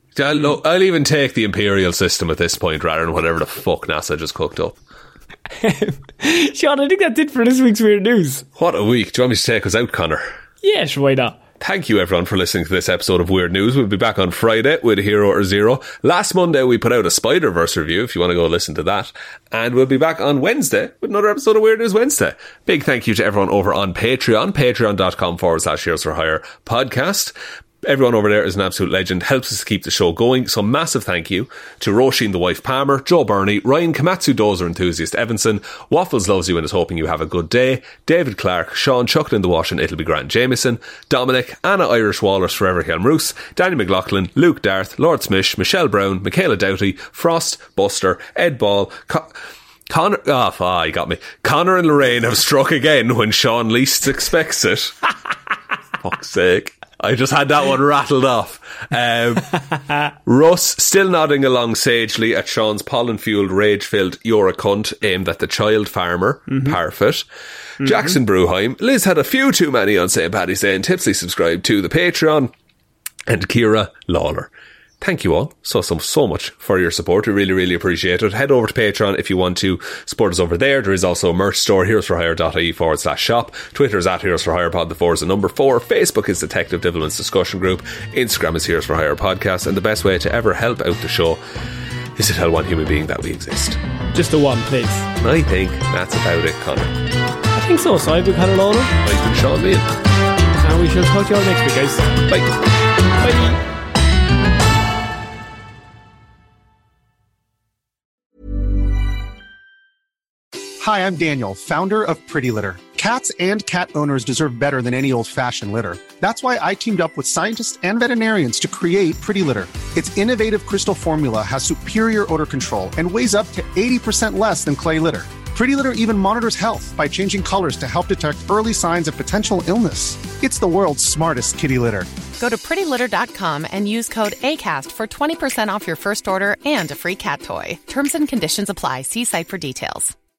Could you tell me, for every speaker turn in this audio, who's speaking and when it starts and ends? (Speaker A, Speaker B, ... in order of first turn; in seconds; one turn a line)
Speaker A: 0.1-4.8
Speaker B: 5.6-8.5
Speaker A: 8.6-10.3
Speaker B: 10.6-11.4
Speaker A: 11.6-55.0
Speaker A: 56.0-59.6
Speaker A: 60.2-67.3
Speaker B: 66.5-66.8
Speaker A: 67.8-72.5
Speaker A: 73.3-91.4
Speaker A: 92.2-93.8
Speaker B: 94.1-95.1
Speaker A: 95.2-97.0
Speaker B: 97.5-98.9
Speaker A: 99.0-99.9
Speaker B: 100.6-102.2
Speaker A: 102.3-102.5
Speaker B: 103.2-103.6
Speaker C: 110.8-132.1
Speaker D: 132.4-140.2